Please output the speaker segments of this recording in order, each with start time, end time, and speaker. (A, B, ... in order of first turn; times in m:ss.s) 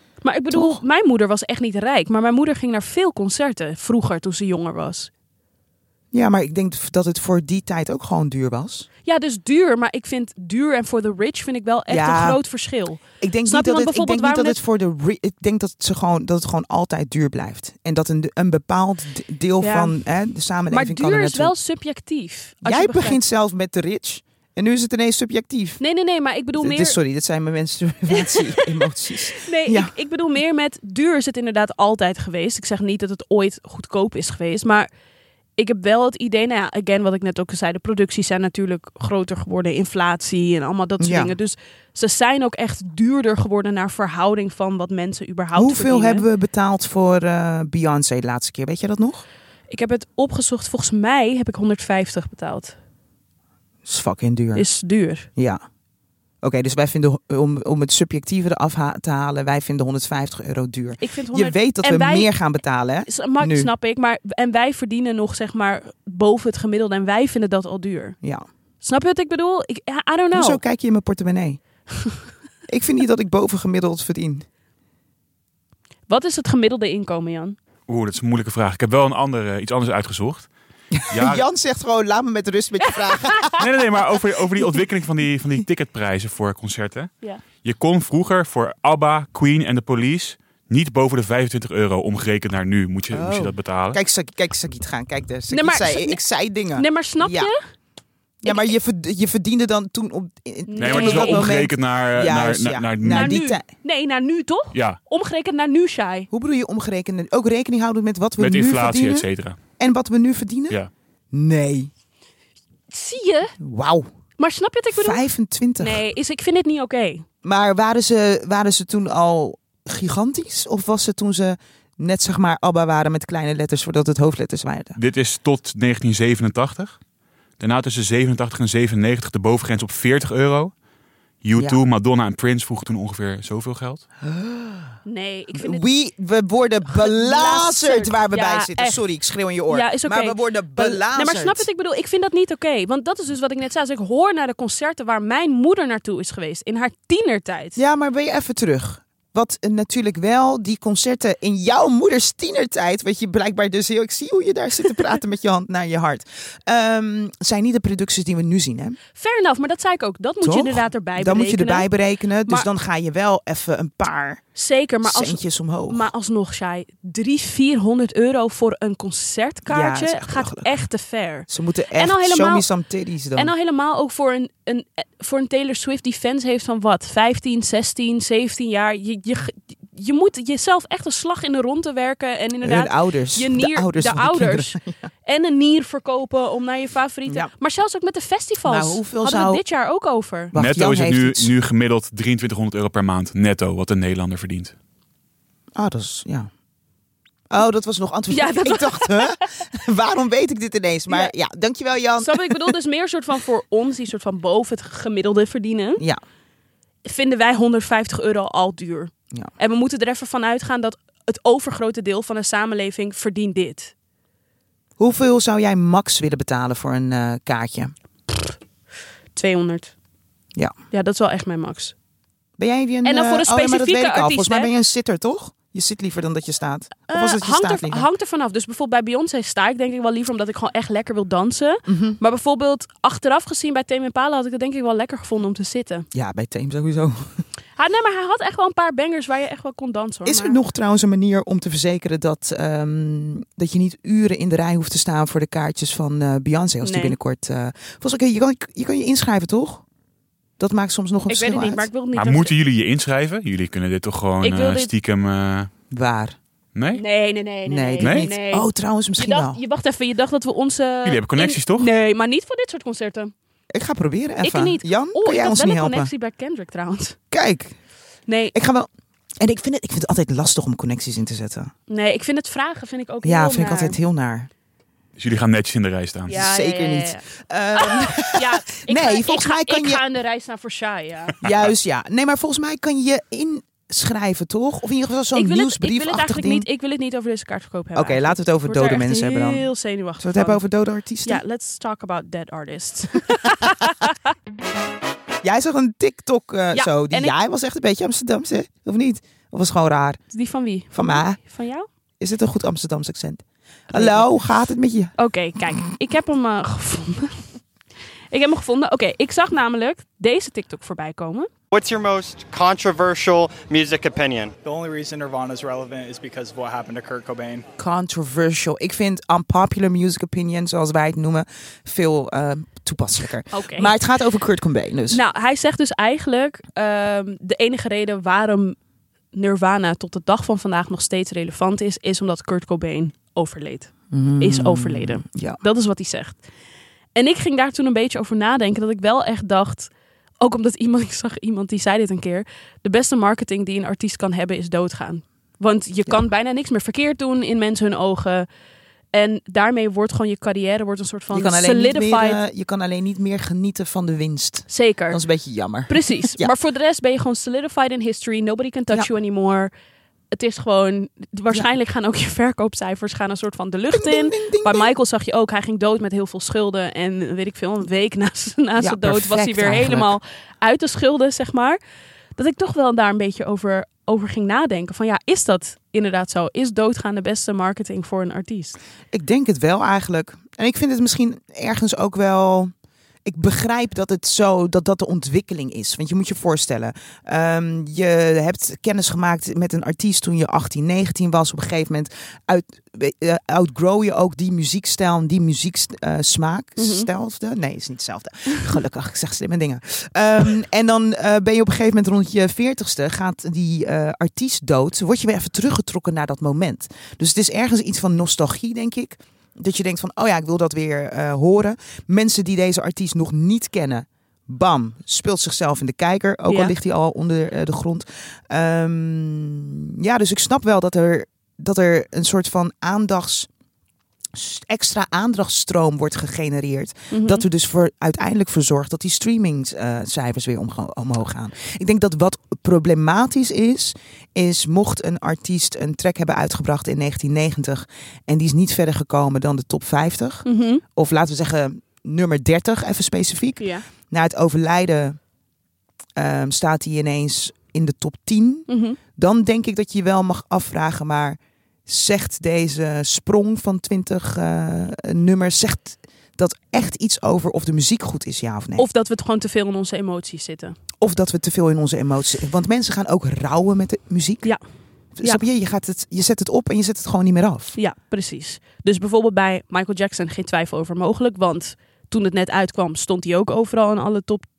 0:00.2-0:05.1 A
0:00.5-0:00.8 B
0:06.1-0:08.9 B
0:09.0-0:14.6 A
0:11.9-0:12.4 B
0:13.2-0:21.5 B
0:19.6-0:20.0 A
0:20.7-0:23.2 A
0:22.6-0:25.8 B
0:25.8-0:27.0 A
0:26.6-0:29.9 B
0:28.1-0:34.9 A
0:35.6-0:46.3 A
0:41.0-0:41.4 B
0:45.6-0:49.2 B
0:49.7-0:52.8 A
0:53.8-0:54.7 B
0:54.5-0:55.3 A
0:55.4-0:55.6 B
0:56.4-1:03.7 B
1:01.0-1:02.3 A
1:03.1-1:08.2 A
1:08.8-1:10.6 A
1:10.3-1:11.6 B
1:12.7-1:14.5 B
1:16.1-1:17.6 A
1:17.9-1:20.5 C
1:20.9-1:23.7 B
1:21.1-1:21.4 C
1:23.3-1:23.5 A
1:23.6-1:34.0 C
1:33.1-1:37.5 B
1:35.5-1:36.2 A
1:36.8-1:37.6 A
1:38.4-1:43.7 B
1:38.5-1:38.7 A
1:40.7-1:41.6 A
1:40.8-1:43.4 C
1:43.0-1:46.3 A
1:44.7-1:45.0 C
1:46.3-1:49.3 B
1:48.4-1:49.6 C
1:49.8-1:50.8 B
1:51.3-1:51.9 B
1:52.9-1:53.5 A
1:53.6-1:54.1 B
1:54.4-1:55.2 A
1:54.9-1:56.0 B
1:55.8-1:57.3 A
1:57.4-2:05.0 B
2:05.0-2:07.0 C
2:07.6-2:10.7 C
2:11.4-2:14.0 C
2:14.2-2:15.0 B
2:15.1-2:15.8 A
2:15.5-2:21.7 B
2:16.9-2:19.0 A
2:19.7-2:27.8 A
2:27.8-2:39.0 B
2:39.2-2:41.9 A
2:40.4-2:44.4 B
2:44.6-2:52.6 A
2:45.0-2:46.1 B
2:49.7-2:50.8 B
2:51.5-2:53.5 B
2:53.4-3:10.5 A
3:02.6-3:05.0 B
3:08.6-3:09.6 B
3:10.5-3:11.5 B
3:10.6-3:14.8 C
3:15.8-3:16.5 B
3:17.5-3:22.8 B
3:18.3-3:19.5 A
3:22.2-3:26.0 A
3:27.0-3:33.9 A
3:35.0-3:37.9 B
3:39.3-3:39.9 A
3:40.9-3:41.9 A
3:42.6-3:48.1 B
3:43.0-3:44.7 A
3:47.1-3:56.1 A
3:51.9-3:52.2 B
3:56.1-3:57.4 B
3:57.8-4:00.6 A
4:00.2-4:09.8 B
4:06.8-4:07.2 A
4:10.6-4:11.9 B
4:11.3-4:12.5 A
4:12.1-4:15.7 C
4:14.4-4:14.9 A
4:15.9-4:16.4 B
4:16.8-4:17.0 C
4:16.9-4:23.3 A
4:17.7-4:19.6 B
4:21.0-4:21.9 C
4:23.7-4:26.1 B
4:24.4-4:27.2 A
4:27.3-4:27.8 B
4:28.3-4:28.6 A
4:28.5-4:28.9 B
4:29.4-4:31.7 B
4:31.9-4:34.0 A
4:33.2-4:34.5 B
4:35.2-4:36.4 C
4:36.3-4:41.4 A
4:36.3-4:40.0 B
4:41.4-4:46.7 B
4:45.3-4:50.6 A
4:48.0-4:49.7 B
4:50.2-4:51.4 B
4:51.3-4:54.2 A
4:55.4-5:00.2 B
4:56.7-4:57.3 A
5:00.3-5:01.9 A
5:00.9-5:01.4 B
5:02.2-5:05.6 B
5:03.9-5:04.3 A
5:05.2-5:07.4 A
5:08.3-5:11.5 A
5:11.7-5:14.6 D
5:14.6-5:17.7 E
5:17.8-5:25.2 B
5:23.5-5:23.9 A
5:25.1-5:28.8 A
5:29.3-5:36.4 A
5:34.1-5:35.6 B
5:37.2-5:39.9 A
5:40.4-5:48.5 A
5:49.1-5:52.4 A
5:51.3-5:56.5 B
5:54.7-5:55.2 A
5:55.9-5:59.7 A
6:00.3-6:11.8 A
6:03.9-6:04.9 B
6:08.8-6:10.2 B
6:12.4-6:18.8 A
6:19.1-6:22.7 B
6:23.3-7:03.5 B
6:36.8-6:37.1 A
6:56.5-6:56.7 A
7:04.3-7:25.2 B
7:07.1-7:07.4 A
7:20.4-7:20.8 A
7:23.6-7:23.9 A
7:26.2-7:38.9 B
7:28.7-7:29.0 A
7:38.8-7:40.8 A
7:41.0-7:44.5 B
7:45.2-7:47.8 B
7:47.8-7:54.5 A